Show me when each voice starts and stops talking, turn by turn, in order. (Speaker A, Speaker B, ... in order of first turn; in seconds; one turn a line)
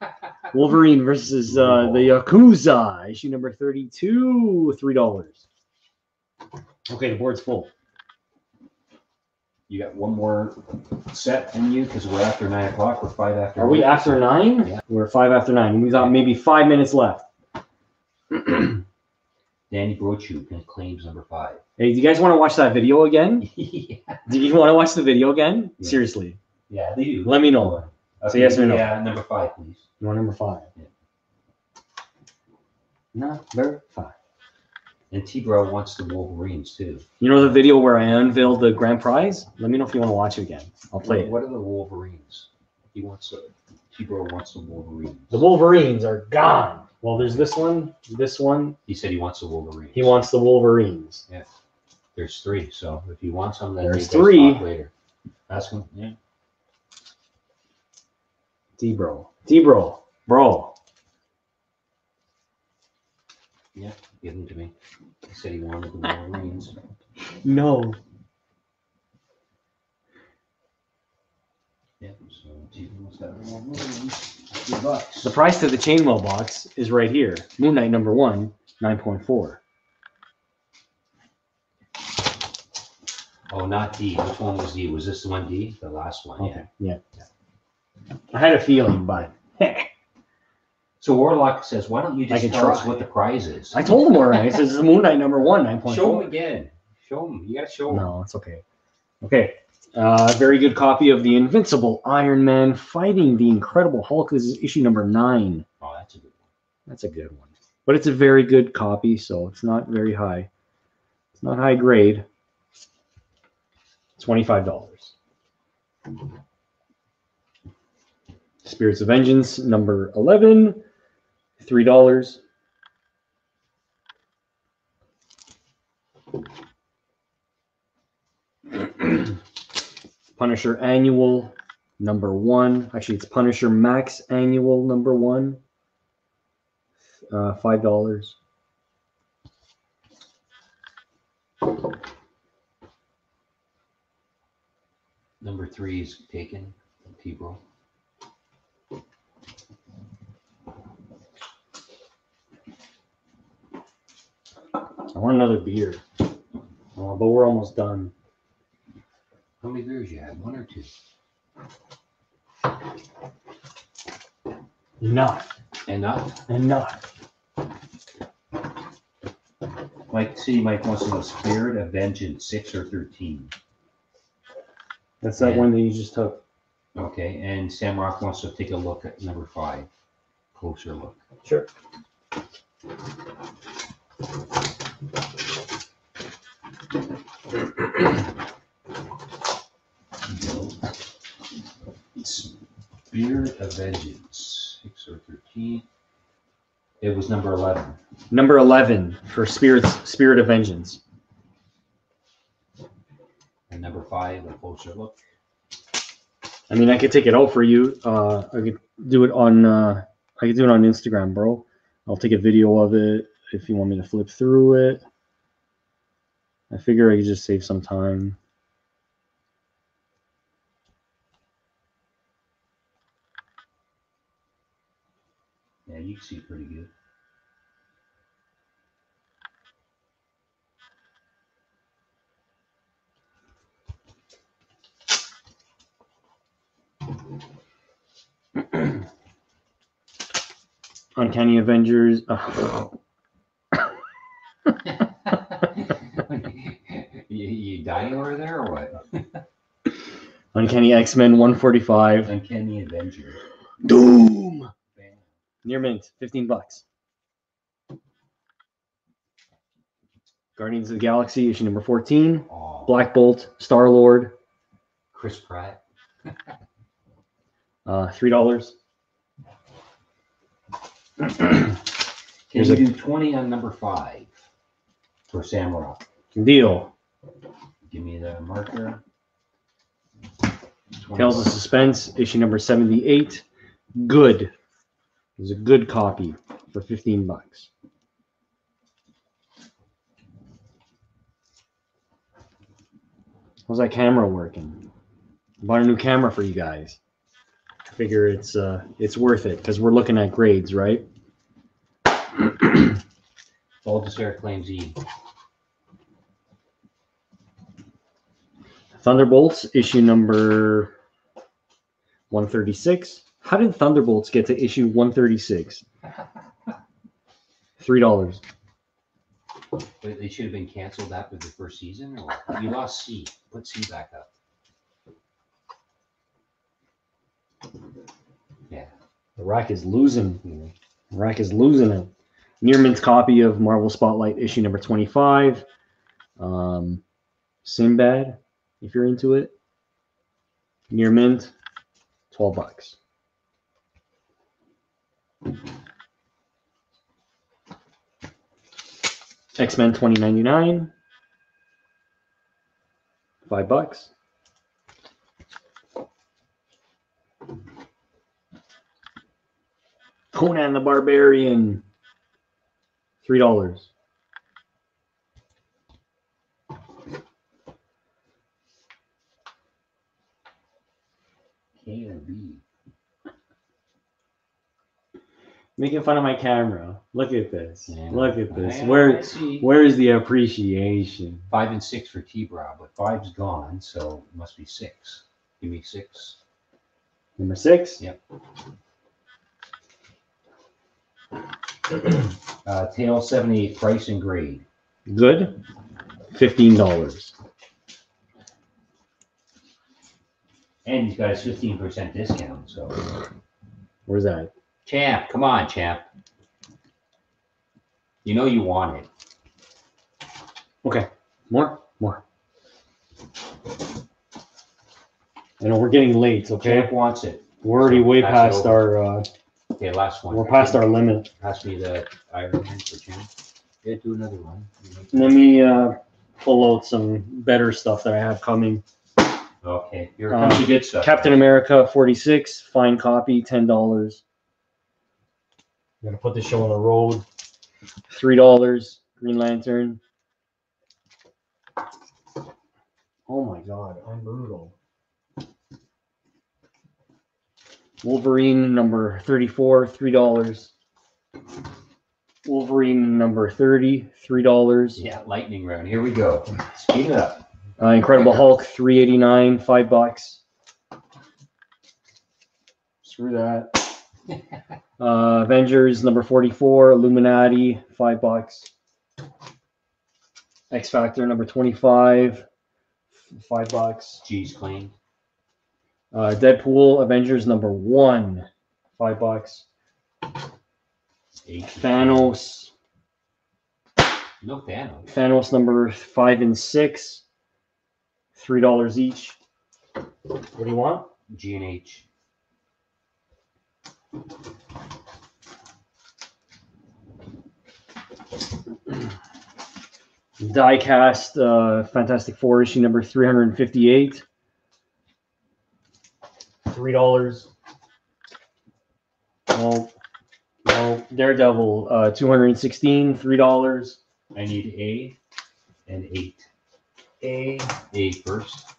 Speaker A: 0.5-5.4
Speaker B: 1.4-2.2
Speaker A: 6.9-7.7
Speaker B: 9.7-14.8
Speaker A: 13.6-17.2
Speaker A: 18.3-18.8
Speaker B: 19.7-21.6
Speaker A: 21.8-23.5
Speaker B: 23.4-24.2
Speaker A: 24.3-26.4
Speaker B: 26.7-29.9
Speaker A: 27.2-28.9
Speaker A: 30.0-30.7
Speaker A: 33.1-34.1
Speaker B: 35.1-37.0
Speaker A: 37.2-41.3
Speaker B: 41.0-45.5
Speaker A: 45.3-48.8
Speaker B: 48.9-50.1
Speaker A: 49.9-51.2
Speaker B: 52.1-54.9
Speaker A: 53.8-54.6
Speaker B: 55.5-56.1
Speaker A: 58.8-60.7
Speaker B: 63.7-64.7
Speaker B: 65.2-66.8
Speaker A: 67.4-68.0
Speaker B: 72.0-75.4
Speaker A: 75.2-79.6
Speaker B: 83.5-86.6
Speaker A: 86.4-87.0
Speaker A: 88.3-89.9
Speaker B: 91.0-93.9
Speaker A: 92.3-93.0
Speaker A: 93.7-96.3
Speaker B: 95.8-98.1
Speaker A: 97.9-98.6
Speaker A: 99.2-105.7
Speaker B: 105.8-106.5
Speaker A: 106.9-110.5
Speaker A: 111.3-112.2
Speaker A: 114.2-115.1
Speaker A: 118.6-120.8
Speaker A: 121.6-122.4
Speaker A: 128.8-129.3
Speaker A: 130.4-135.6
Speaker A: 137.3-138.3
Speaker B: 145.4-147.6
Speaker A: 155.1-156.0
Speaker A: 156.9-158.1
Speaker B: 159.6-160.9
Speaker A: 165.0-165.5
Speaker B: 165.9-166.4
Speaker A: 166.5-167.0
Speaker B: 170.1-173.5
Speaker A: 175.2-176.4
Speaker B: 175.4-175.7
Speaker B: 176.9-179.9
Speaker B: 180.5-181.2
Speaker B: 192.2-192.5
Speaker B: 193.1-195.8
Speaker B: 197.0-198.0
Speaker A: 198.3-201.0
Speaker B: 203.7-205.2
Speaker A: 206.7-215.0
Speaker A: 216.7-218.4
Speaker B: 225.8-226.9
Speaker A: 241.2-242.9
Speaker B: 244.9-249.4
Speaker A: 250.5-252.3
Speaker B: 252.2-253.4
Speaker A: 253.8-254.7
Speaker B: 254.9-255.2
Speaker A: 255.6-256.8
Speaker A: 260.6-264.3
Speaker B: 262.5-262.9
Speaker B: 265.1-266.3
Speaker A: 267.9-268.7
Speaker A: 271.2-271.7
Speaker B: 272.5-274.3
Speaker A: 272.5-272.8
Speaker B: 275.3-276.0
Speaker A: 276.3-276.9
Speaker B: 277.9-279.0
Speaker B: 281.0-281.6
Speaker A: 281.1-283.4
Speaker A: 283.9-284.5
Speaker A: 285.4-287.7
Speaker A: 293.7-294.8
Speaker A: 295.6-297.0
Speaker A: 297.9-301.0
Speaker B: 303.8-305.0
Speaker A: 309.0-310.9
Speaker A: 312.3-315.8
Speaker A: 317.8-318.4
Speaker B: 320.0-324.3
Speaker A: 329.4-330.4
Speaker B: 330.4-330.7
Speaker A: 331.1-332.1
Speaker A: 332.6-335.6
Speaker A: 336.4-337.0
Speaker A: 337.6-339.5
Speaker A: 340.9-341.5
Speaker A: 342.3-343.0
Speaker A: 349.6-350.9
Speaker A: 353.4-354.1
Speaker A: 360.3-361.8
Speaker A: 363.2-363.9
Speaker B: 371.8-372.6
Speaker A: 375.8-381.5
Speaker B: 377.9-379.7
Speaker B: 381.5-386.4
Speaker A: 387.4-388.0
Speaker B: 392.6-394.6
Speaker A: 395.1-395.6
Speaker A: 396.3-397.3
Speaker B: 400.8-403.1
Speaker A: 404.1-404.5
Speaker B: 404.9-406.1
Speaker B: 408.2-409.1
Speaker A: 410.8-412.2
Speaker A: 415.6-416.9
Speaker B: 416.6-418.8
Speaker A: 417.6-419.3
Speaker B: 419.8-423.3
Speaker A: 420.3-421.3
Speaker B: 423.8-425.3
Speaker A: 425.1-428.8
Speaker B: 429.6-431.3
Speaker A: 430.3-434.2
Speaker A: 436.0-437.2
Speaker A: 438.1-440.0
Speaker A: 443.3-444.7
Speaker A: 448.0-450.7
Speaker A: 452.4-455.0
Speaker B: 455.0-457.4
Speaker A: 457.8-460.4
Speaker A: 463.0-463.9
Speaker A: 465.0-468.7
Speaker A: 470.7-472.4
Speaker A: 473.2-474.2
Speaker B: 474.2-474.9
Speaker A: 476.1-479.6
Speaker B: 481.4-482.4
Speaker A: 481.7-482.7
Speaker B: 484.4-485.1
Speaker A: 485.1-487.2
Speaker A: 488.3-489.4
Speaker A: 490.5-491.1
Speaker B: 491.3-492.0
Speaker A: 500.4-504.2
Speaker A: 506.6-507.5
Speaker A: 509.5-509.9
Speaker A: 510.6-514.0
Speaker B: 514.3-515.2
Speaker B: 515.9-516.5
Speaker A: 517.2-517.7
Speaker B: 517.8-518.7